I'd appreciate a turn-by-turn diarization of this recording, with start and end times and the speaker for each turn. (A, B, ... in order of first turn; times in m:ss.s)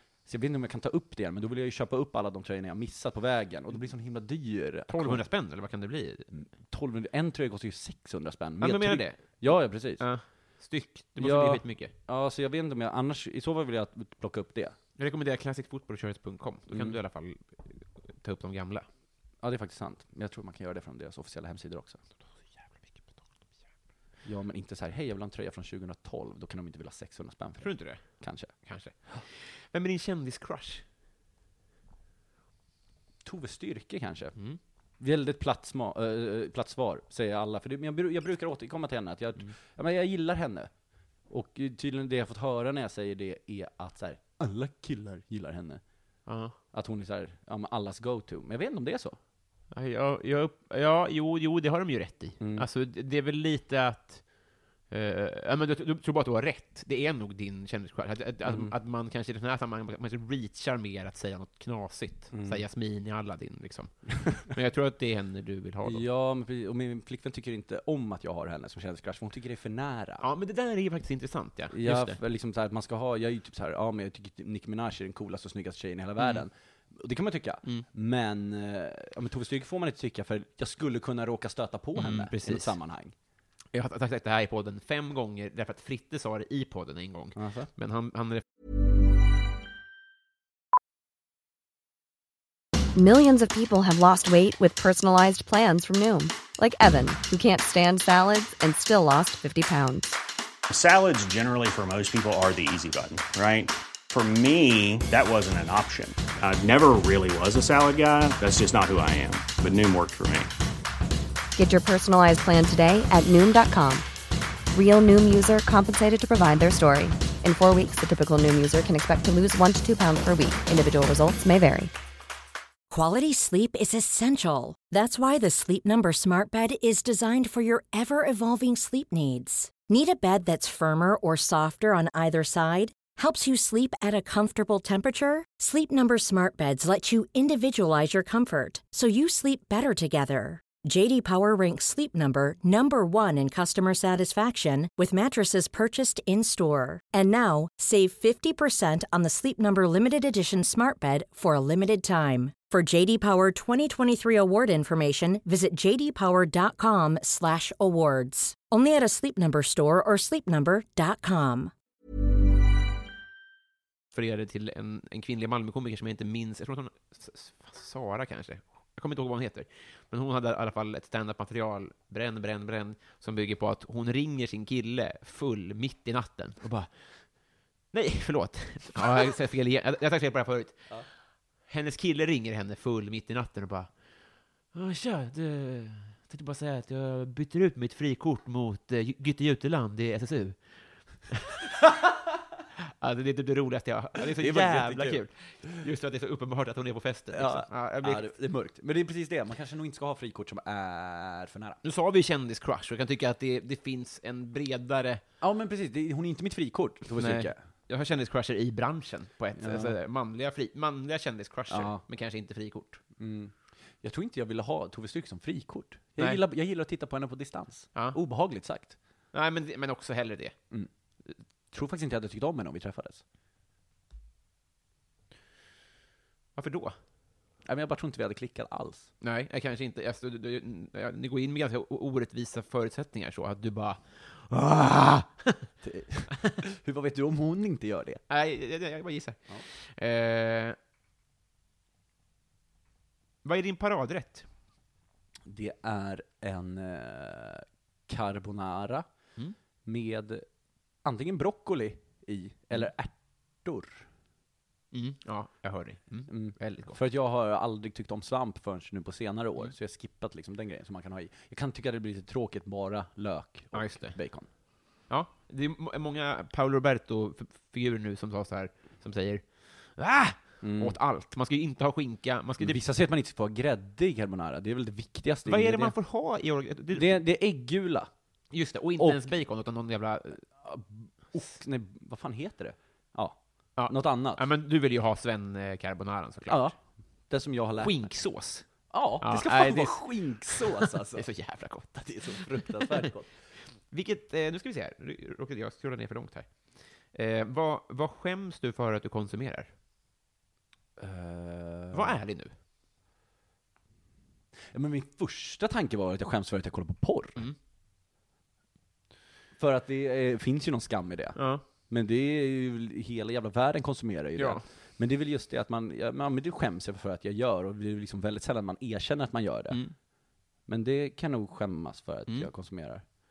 0:00.2-0:05.2 A
0:04.9-0:06.3 B
0:06.3-0:10.0 A
0:08.6-0:11.9 B
0:11.2-0:14.8 A
0:15.0-0:18.9 B
0:16.7-0:17.0 A
0:19.4-0:22.0 A
0:22.5-0:23.2 B
0:24.2-0:28.5 A
0:27.6-0:30.8 B
0:33.2-0:34.4 A
0:35.0-0:40.7 A
0:41.3-0:45.8 A
0:46.3-0:46.6 B
0:46.7-0:49.2 A
0:49.7-0:54.3 B
0:52.4-0:52.7 A
0:54.9-1:06.0 B
0:58.4-0:58.7 A
1:02.3-1:02.6 A
1:05.8-1:10.2 A
1:10.2-1:12.2 B
1:11.7-1:23.1 A
1:16.2-1:16.4 B
1:22.0-1:22.8 B
1:23.7-1:28.4 B
1:27.4-1:27.7 A
1:33.0-1:40.2 C
1:40.7-1:50.5 D
1:51.6-1:54.0 C
1:54.7-2:01.9 C
2:02.9-2:41.7 E
2:44.1-2:57.0 B
2:57.9-3:00.9 B
3:01.7-3:03.9 B
3:04.7-3:12.1 B
3:12.8-3:18.3 B
3:14.4-3:15.8 A
3:17.3-3:21.8 A
3:21.8-3:25.2 B
3:25.4-3:27.6 A
3:27.2-3:33.0 B
3:29.6-3:30.0 A
3:31.7-3:32.0 A
3:33.2-3:39.0 A
3:39.3-3:40.6 B
3:41.7-3:43.2 A
3:46.6-3:47.0 B
3:47.7-3:49.1 A
3:49.2-3:55.7 B
3:55.8-3:58.2 A
3:58.3-4:00.8 B
4:03.4-4:04.5 B
4:05.5-4:09.0 A
4:09.8-4:10.4 A
4:11.0-4:14.1 A
4:14.9-4:17.0 B
4:16.3-4:24.5 A
4:23.7-4:24.2 B
4:25.1-4:32.8 B
4:30.6-4:31.0 A
4:32.6-4:36.0 A
4:35.5-4:37.2 B
4:36.9-4:38.1 A
4:38.5-4:40.4 B
4:39.0-4:39.3 A
4:40.6-4:44.4 A
4:43.8-4:46.7 B
4:46.5-4:46.8 A
4:47.3-4:48.0 A
4:47.8-4:48.7 B
4:48.9-4:51.3 A
4:49.2-4:53.1 B
4:52.0-4:53.3 A
4:53.9-4:56.5 B
4:57.1-4:59.7 B
5:01.0-5:02.2 A
5:01.9-5:02.5 B
5:04.7-5:07.4 A
5:09.6-5:19.8 A
5:11.4-5:11.6 B
5:14.4-5:14.6 B
5:19.7-5:20.0 B
5:20.7-5:23.0 A